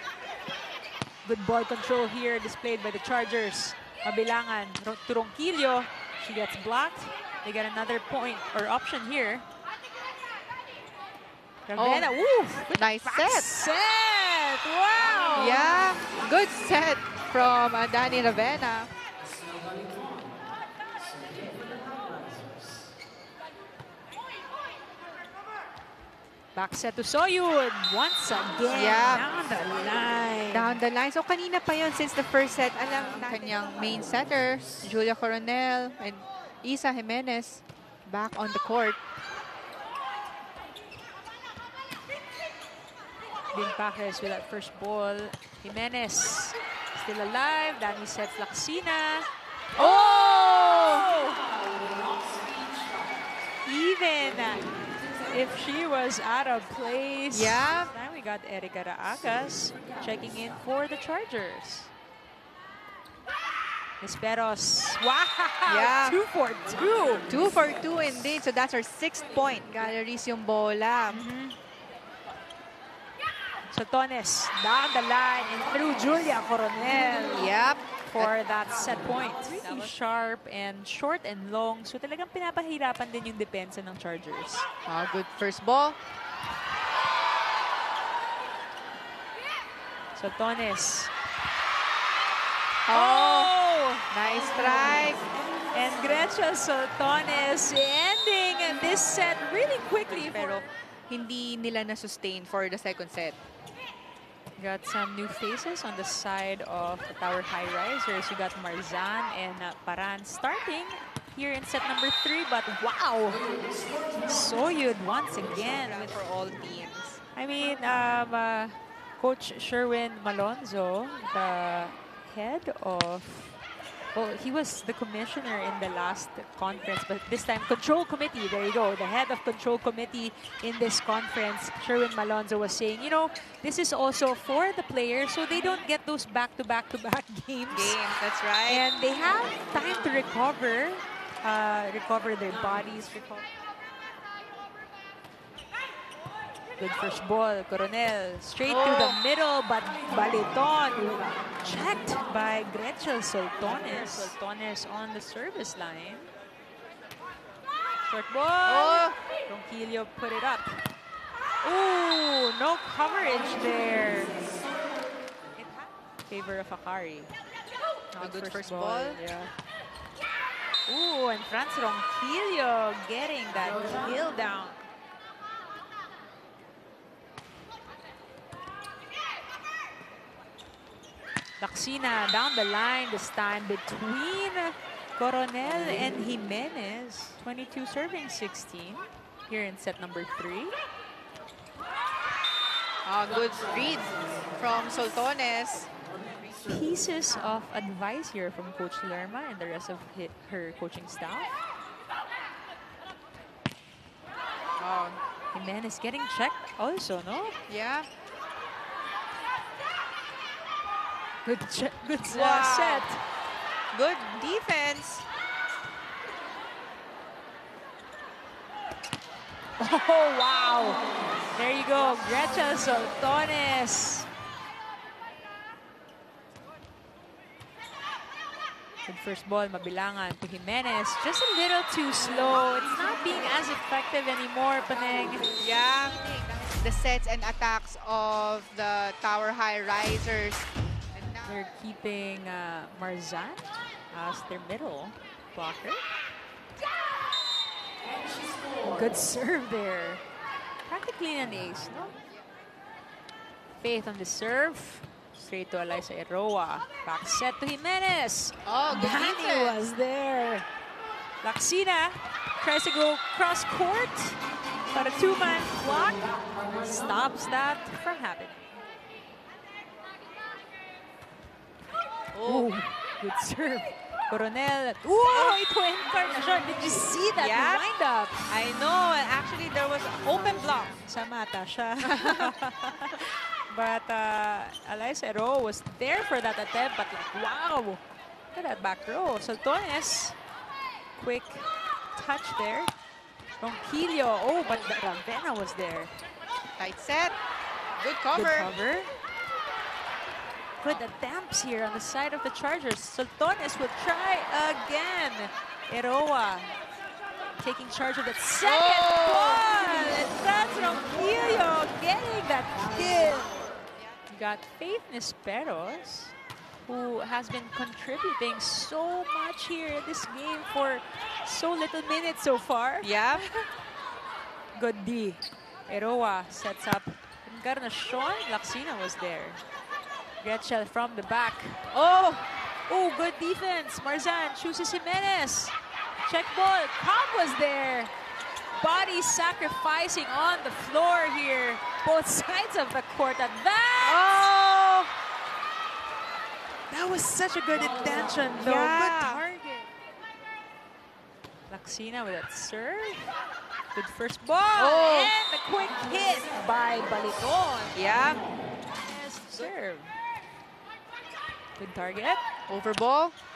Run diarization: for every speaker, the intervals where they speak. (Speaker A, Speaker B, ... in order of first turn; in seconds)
Speaker A: 1.2-9.4, 11.7-15.8, 26.5-30.8, 33.0-33.4, 43.5-51.5, 53.6-61.9, 64.0-67.3, 69.7-70.0, 71.1-71.6, 73.7-77.5, 78.0-84.7, 90.1-91.1, 92.9-94.1, 94.6-95.0, 95.5-100.7, 104.6-113.4, 114.0-116.2, 117.3-123.6, 124.1-138.0, 138.7-143.4, 146.8-156.3, 158.0-160.8, 161.6-164.4, 165.6-167.3, 168.1-169.5, 170.9-174.8, 181.6-190.7, 196.6-201.6, 205.5-207.6, 211.4-213.2, 219.8-224.3, 229.1-235.5, 241.4-246.0, 248.8-250.2, 250.8-252.2, 253.8-260.6, 261.4-264.4, 264.9-268.6, 272.4-278.4, 280.2-290.4, 291.1-292.9, 293.6-296.1, 298.3-299.1, 300.8-306.7, 307.6-313.6, 314.3-323.7, 324.7-329.6, 330.4-331.8, 332.9-338.1, 338.7-344.5, 346.9-349.9, 351.7-353.3, 353.9-358.3, 359.0-360.2, 361.8-362.4
Speaker B: 11.8-12.2, 12.7-13.6, 15.3-18.9, 28.7-29.2, 30.5-39.0, 49.8-51.1, 57.3-57.9, 65.7-66.2, 67.3-71.2, 77.2-78.3, 79.4-80.0, 84.8-86.0, 92.9-93.5, 94.1-95.2, 100.0-103.4, 115.5-117.2, 137.7-138.8, 148.6-149.2, 158.7-159.2, 168.2-169.2, 193.1-195.9, 204.8-205.2, 207.7-208.1, 212.2-213.1, 213.9-215.2, 235.5-241.6, 258.6-259.8, 272.3-272.8, 275.3-275.6, 277.4-277.8, 278.5-281.0, 282.1-282.5, 296.8-297.3, 297.9-298.7, 308.6-309.9, 323.0-323.5, 331.9-332.5, 344.0-345.1, 348.6-349.4, 354.8-355.3, 357.9-358.4, 362.7-363.4